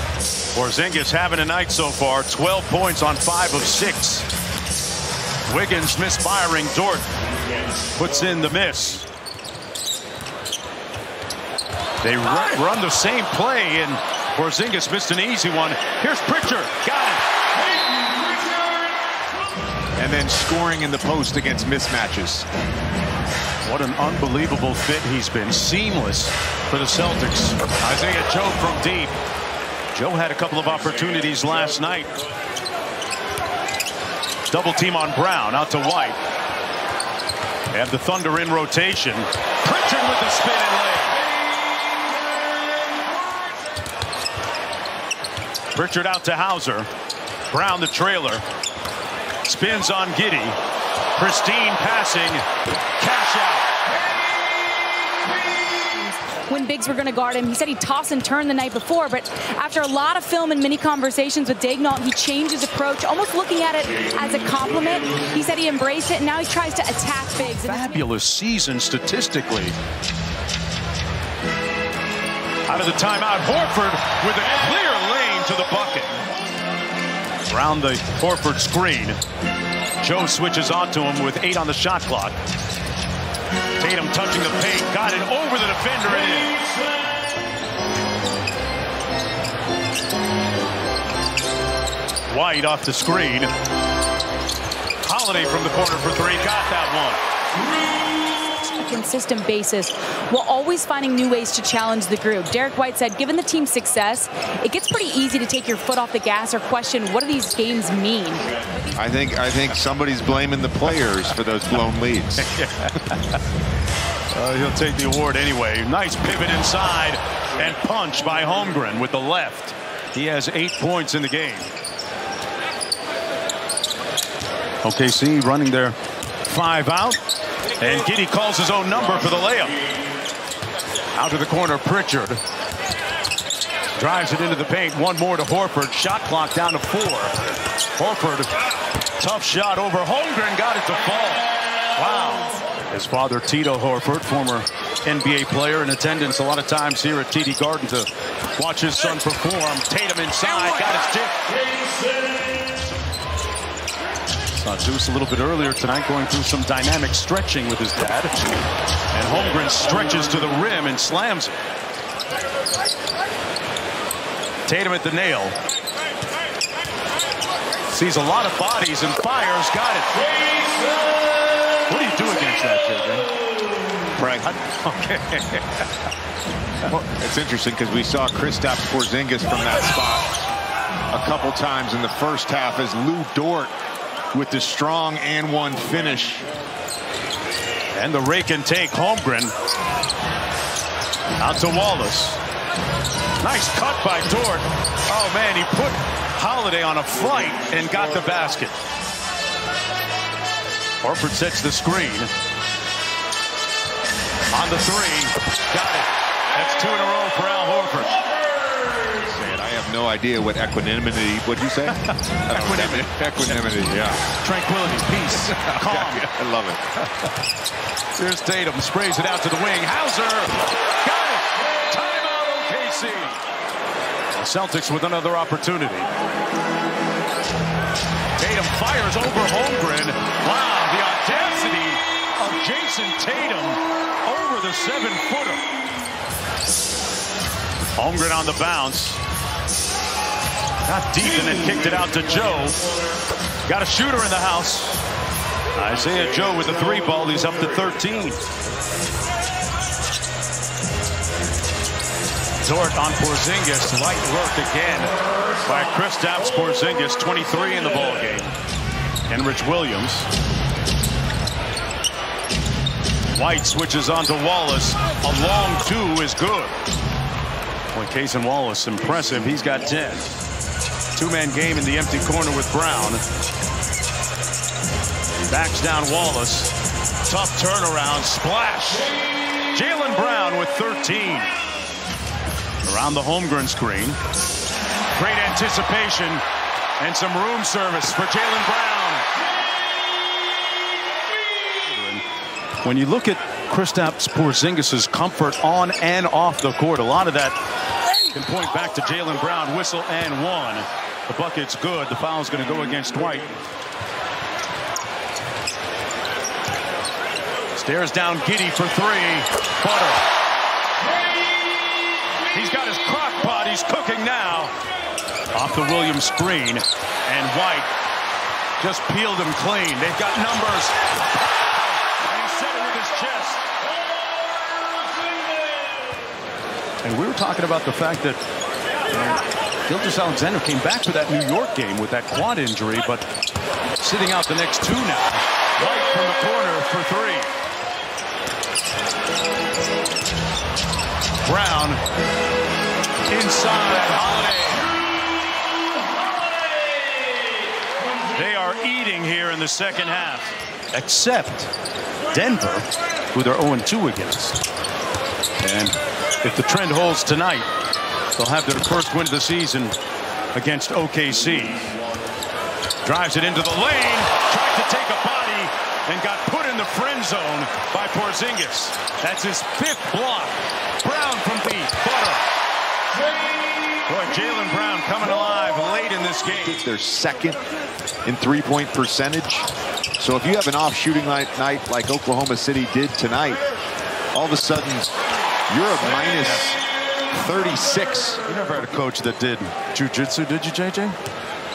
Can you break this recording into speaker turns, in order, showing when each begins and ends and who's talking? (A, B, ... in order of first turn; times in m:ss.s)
0:00.5-0:04.3 A
0:05.4-0:07.1 A
0:08.0-0:09.0 A
0:12.0-0:17.2 A
0:20.0-0:22.5 B
0:23.6-0:29.2 A
0:29.9-0:32.1 A
0:34.5-0:36.2 A
0:37.7-0:41.2 A
0:45.7-0:46.9 A
0:47.5-0:48.4 A
0:49.4-0:50.6 A
0:51.1-0:52.4 A
0:53.0-0:53.7 A
0:56.1-1:08.0 C
1:07.5-1:09.7 A
1:12.7-1:16.2 A
1:17.5-1:19.2 A
1:20.0-1:22.4 A
1:23.8-1:26.6 A
1:32.3-1:33.5 A
1:35.0-1:37.2 A
1:38.8-1:48.9 C
1:48.9-1:52.5 B
1:52.4-1:53.4 A
1:54.3-2:01.7 A
2:04.8-2:07.2 A
2:07.8-2:09.8 A
2:11.1-2:12.4 A
2:14.0-2:17.3 A
2:18.0-2:18.5 A
2:19.2-2:31.4 A
2:34.5-2:38.5 A
2:39.1-2:41.6 A
2:44.6-2:45.6 A
2:47.9-2:50.2 A
2:51.9-2:53.3 A
2:54.1-2:54.5 B
2:54.4-2:55.8 A
2:56.8-3:00.3 B
3:01.1-3:03.7 B
3:04.3-3:06.5 B
3:07.9-3:09.5 A
3:11.4-3:12.4 A
3:13.4-3:18.8 A
3:21.0-3:22.3 A
3:24.5-3:28.2 A
3:29.2-3:34.2 B
3:31.9-3:33.7 A
3:34.3-3:36.3 A
3:35.4-3:37.0 B
3:38.2-3:43.4 A
3:44.3-3:46.1 A
3:48.4-3:55.6 A
3:58.0-3:59.2 A
4:00.8-4:02.8 A
4:03.6-4:05.0 A
4:05.7-4:08.4 A
4:12.6-4:18.5 A
4:19.3-4:20.3 A
4:23.3-4:26.7 A
4:27.9-4:30.4 A
4:31.1-4:33.2 A
4:35.5-4:39.1 A
4:39.7-4:41.6 A
4:42.8-4:44.2 A
4:45.1-4:46.4 A
4:47.0-4:49.3 A
4:51.8-4:52.2 A
4:52.8-4:57.6 A
4:58.3-5:03.6 A
5:07.7-5:10.2 A
5:12.5-5:14.7 A
5:15.5-5:17.9 A
5:18.8-5:21.0 A
5:22.2-5:23.6 A
5:27.0-5:28.4 A
5:29.2-5:33.2 A
5:34.0-5:37.5 A
5:41.4-5:42.0 A
5:43.3-5:44.9 A
5:48.3-5:51.7 A
5:52.3-5:54.6 A
5:55.6-5:57.7 A
5:58.3-6:00.0 A
6:00.5-6:01.9 A
6:03.0-6:12.4 A
6:14.1-6:16.8 A
6:16.6-6:17.6 B
6:18.2-6:19.7 B
6:20.2-6:23.6 B
6:24.3-6:25.1 B
6:25.7-6:26.8 B
6:27.3-6:28.4 B
6:28.5-6:31.2 A